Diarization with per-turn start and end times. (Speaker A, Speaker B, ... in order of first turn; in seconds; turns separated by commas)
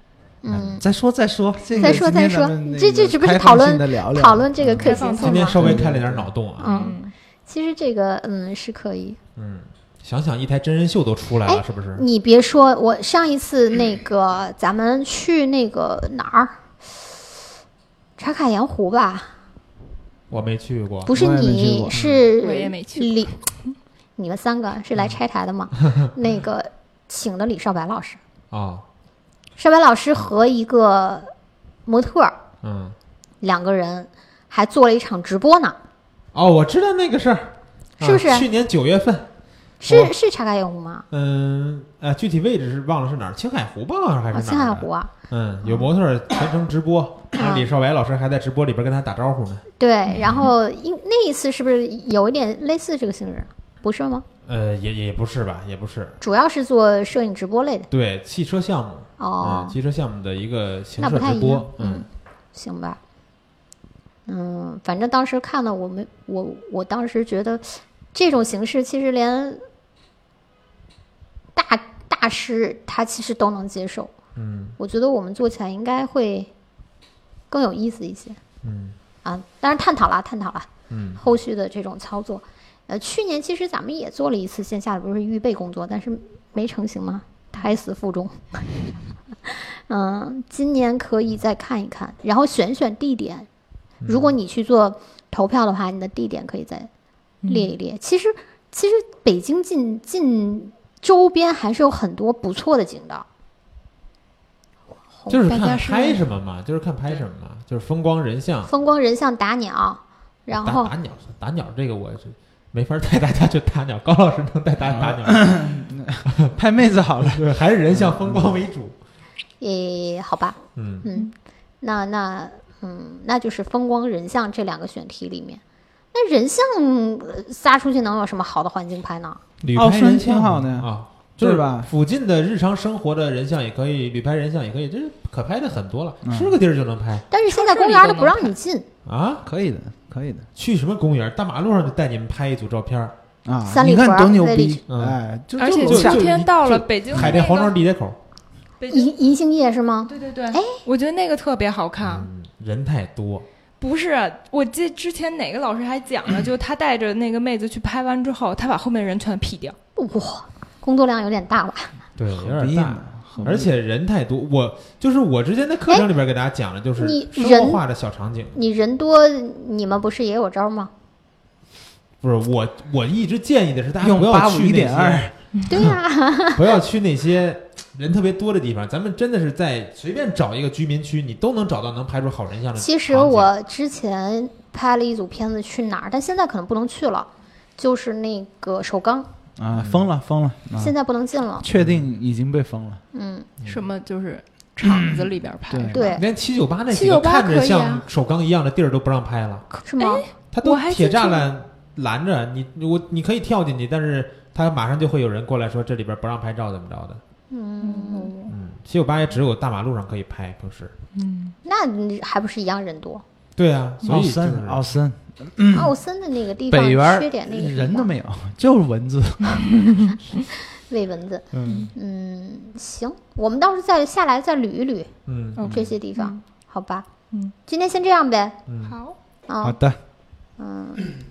Speaker A: 0.4-0.8, Speaker B: 0.5-6.3, Speaker A: 1.8-5.8, Speaker C: 4.8-5.8, Speaker D: 5.2-7.0, Speaker A: 6.6-9.2, Speaker C: 6.6-7.1, Speaker D: 9.4-12.1, Speaker A: 11.5-16.6, Speaker A: 18.2-19.3, Speaker D: 20.3-21.1, Speaker A: 21.1-23.4, Speaker B: 21.1-22.0, Speaker D: 21.9-22.2, Speaker C: 22.4-23.3, Speaker A: 24.2-28.2, Speaker D: 28.5-28.8, Speaker A: 29.6-31.3, Speaker A: 31.9-32.4, Speaker D: 32.6-33.0, Speaker A: 33.4-35.8, Speaker D: 36.3-39.3, Speaker A: 38.0-38.5, Speaker A: 39.8-41.1, Speaker D: 39.9-40.1, Speaker D: 41.1-49.6, Speaker A: 44.3-45.1, Speaker A: 47.3-47.7, Speaker A: 49.8-54.2, Speaker C: 50.1-50.3, Speaker D: 50.2-50.5, Speaker D: 54.5-56.2, Speaker A: 56.2-57.9, Speaker D: 57.9-62.1, Speaker A: 59.2-59.8, Speaker A: 61.0-63.0, Speaker A: 64.3-69.6, Speaker A: 71.5-74.1, Speaker D: 74.4-74.8, Speaker A: 74.8-76.5, Speaker A: 77.5-78.4, Speaker D: 78.6-79.0, Speaker A: 79.2-93.5, Speaker D: 80.9-81.2, Speaker D: 94.0-94.4, Speaker A: 94.1-96.9, Speaker C: 97.4-97.7, Speaker A: 97.5-103.3, Speaker D: 105.3-108.7, Speaker C: 105.5-106.2, Speaker A: 108.7-110.9, Speaker D: 110.6-115.7, Speaker B: 114.9-118.7, Speaker D: 116.3-116.5, Speaker D: 117.2-118.9, Speaker A: 119.6-125.6, Speaker D: 120.8-121.1, Speaker A: 126.1-129.4, Speaker D: 129.6-137.3, Speaker B: 129.7-131.9, Speaker B: 136.2-136.6, Speaker A: 137.3-138.9, Speaker C: 137.5-138.5, Speaker D: 139.1-139.4, Speaker B: 139.4-140.5, Speaker D: 140.6-143.1, Speaker B: 143.5-146.4, Speaker A: 143.7-144.8, Speaker D: 144.9-145.2, Speaker C: 145.6-147.8, Speaker D: 145.8-148.2, Speaker C: 148.8-149.1, Speaker A: 148.9-150.8, Speaker C: 150.1-152.3, Speaker D: 152.0-153.4, Speaker C: 153.8-159.8, Speaker A: 160.0-161.9, Speaker D: 162.2-168.6, Speaker B: 162.3-163.7, Speaker A: 167.0-167.8, Speaker A: 168.6-170.9, Speaker D: 172.2-175.2, Speaker B: 174.0-175.9, Speaker A: 175.7-176.8, Speaker D: 176.5-183.5, Speaker A: 182.8-189.3, Speaker B: 189.6-191.0, Speaker D: 189.7-190.1, Speaker A: 190.8-191.7, Speaker B: 191.6-193.0, Speaker D: 191.7-192.0, Speaker A: 193.1-193.5, Speaker C: 193.6-196.2, Speaker B: 194.8-196.1, Speaker A: 195.9-196.3, Speaker D: 196.1-199.6, Speaker C: 196.9-198.1, Speaker A: 199.7-200.2, Speaker C: 200.0-201.5, Speaker D: 200.5-207.2, Speaker A: 207.5-208.5, Speaker C: 207.8-208.4, Speaker D: 208.5-210.9, Speaker C: 211.1-211.6, Speaker A: 211.6-213.2, Speaker D: 213.6-214.9, Speaker B: 214.0-215.9, Speaker A: 215.7-218.1, Speaker B: 216.7-219.9, Speaker A: 220.9-225.1, Speaker B: 221.5-221.9, Speaker C: 221.6-221.9, Speaker D: 225.3-225.8, Speaker C: 225.6-226.4, Speaker A: 225.7-227.1, Speaker A: 227.7-228.6, Speaker D: 228.7-229.0, Speaker C: 228.9-229.2, Speaker A: 229.5-229.8, Speaker B: 229.6-230.0, Speaker A: 230.6-231.1